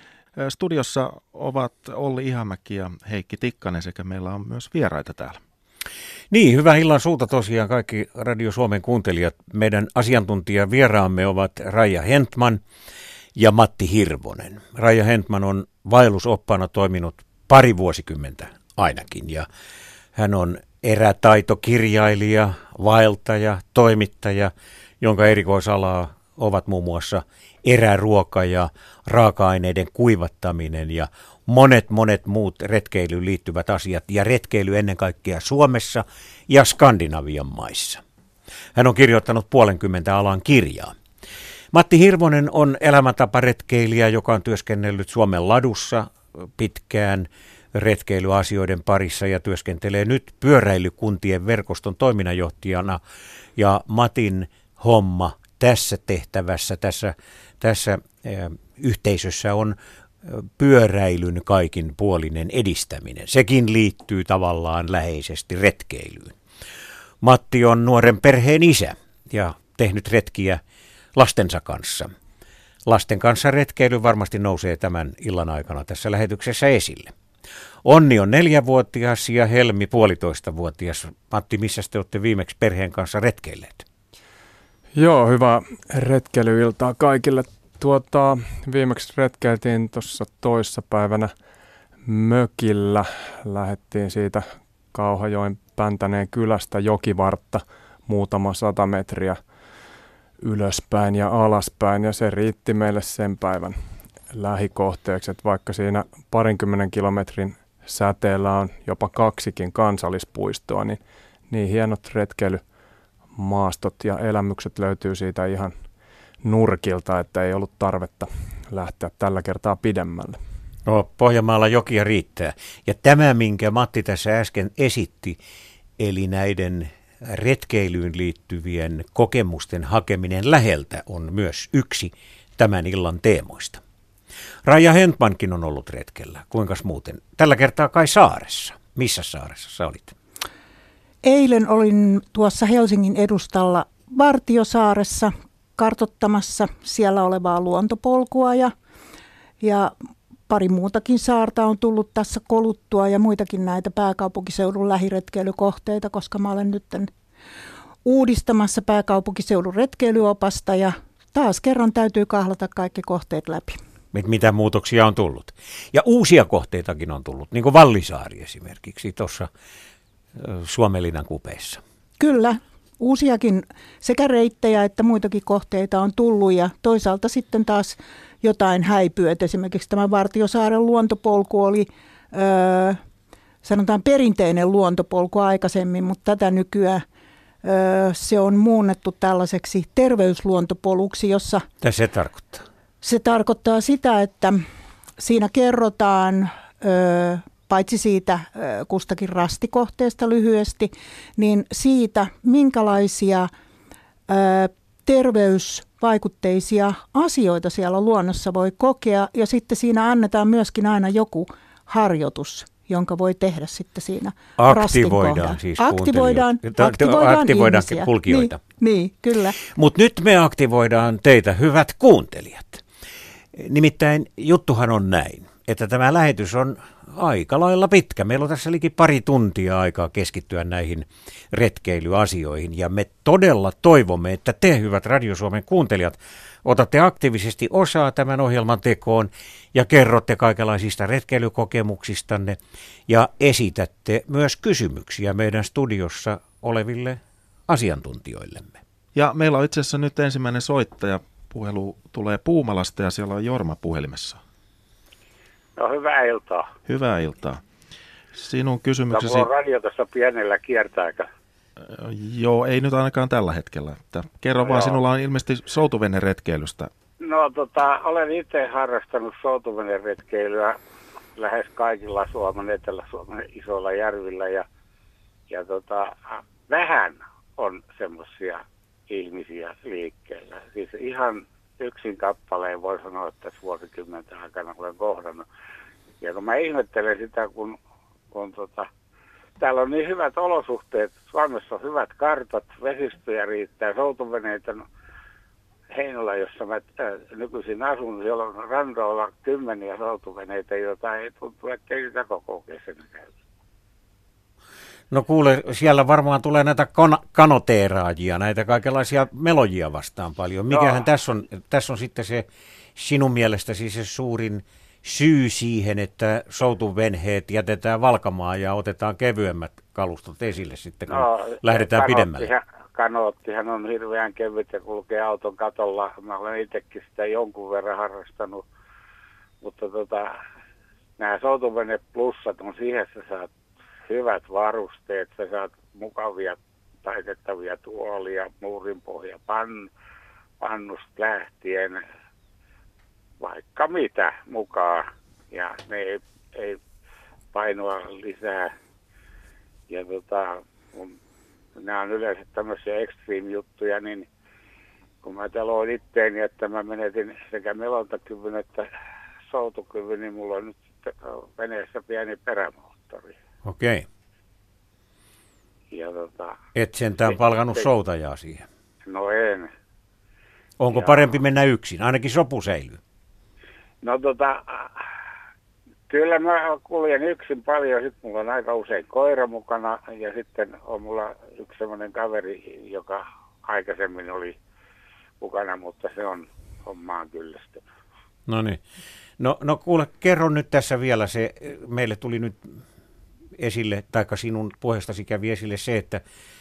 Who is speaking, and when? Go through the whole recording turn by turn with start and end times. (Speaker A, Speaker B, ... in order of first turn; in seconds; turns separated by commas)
Speaker A: 0.4-5.4, Speaker B: 6.3-12.6, Speaker B: 13.4-19.5, Speaker B: 20.2-38.0, Speaker B: 38.8-40.9, Speaker B: 41.7-53.0, Speaker B: 53.6-66.4, Speaker B: 67.2-70.6, Speaker B: 71.2-72.1, Speaker B: 72.9-77.1, Speaker B: 77.8-83.8, Speaker C: 85.0-91.3, Speaker C: 92.0-99.4, Speaker C: 100.4-103.8, Speaker C: 104.3-112.6, Speaker C: 113.3-115.8, Speaker C: 116.4-120.4, Speaker B: 120.9-125.4, Speaker B: 126.0-133.8, Speaker B: 134.7-140.2, Speaker D: 141.2-148.7, Speaker D: 149.6-149.9, Speaker D: 150.5-157.1, Speaker D: 158.1-163.8, Speaker B: 164.1-169.5, Speaker B: 170.4-171.8, Speaker D: 172.2-183.0, Speaker D: 183.6-187.0, Speaker D: 187.6-191.7, Speaker B: 191.8-192.7, Speaker D: 193.0-194.6, Speaker D: 195.2-203.5, Speaker D: 204.3-219.6, Speaker B: 214.6-218.6, Speaker B: 219.8-222.8, Speaker B: 223.6-242.6, Speaker B: 243.1-248.8, Speaker A: 249.2-254.4, Speaker E: 255.8-256.7, Speaker A: 256.9-257.6, Speaker A: 258.3-259.5, Speaker E: 259.1-261.3, Speaker A: 261.8-266.9, Speaker E: 264.6-265.0, Speaker E: 267.2-270.8, Speaker E: 271.4-274.6, Speaker E: 275.5-285.5, Speaker E: 286.2-287.8, Speaker E: 288.3-288.9, Speaker E: 289.6-294.9, Speaker E: 295.9-303.3, Speaker B: 305.1-322.5, Speaker E: 310.7-311.0, Speaker E: 321.1-328.6, Speaker E: 329.6-330.3, Speaker E: 331.2-333.5, Speaker E: 334.1-339.9, Speaker E: 340.6-342.0, Speaker E: 343.4-346.8, Speaker E: 347.5-348.7, Speaker E: 349.9-351.1, Speaker E: 351.8-354.3, Speaker E: 355.2-358.9, Speaker E: 359.5-363.3, Speaker B: 363.6-364.1, Speaker E: 365.9-366.6, Speaker B: 366.8-368.7, Speaker E: 369.1-369.7, Speaker B: 370.8-373.0, Speaker E: 370.9-371.2, Speaker E: 374.0-375.0, Speaker E: 376.1-384.6, Speaker E: 385.4-387.8, Speaker B: 388.5-388.8, Speaker B: 389.4-392.7, Speaker B: 393.6-396.2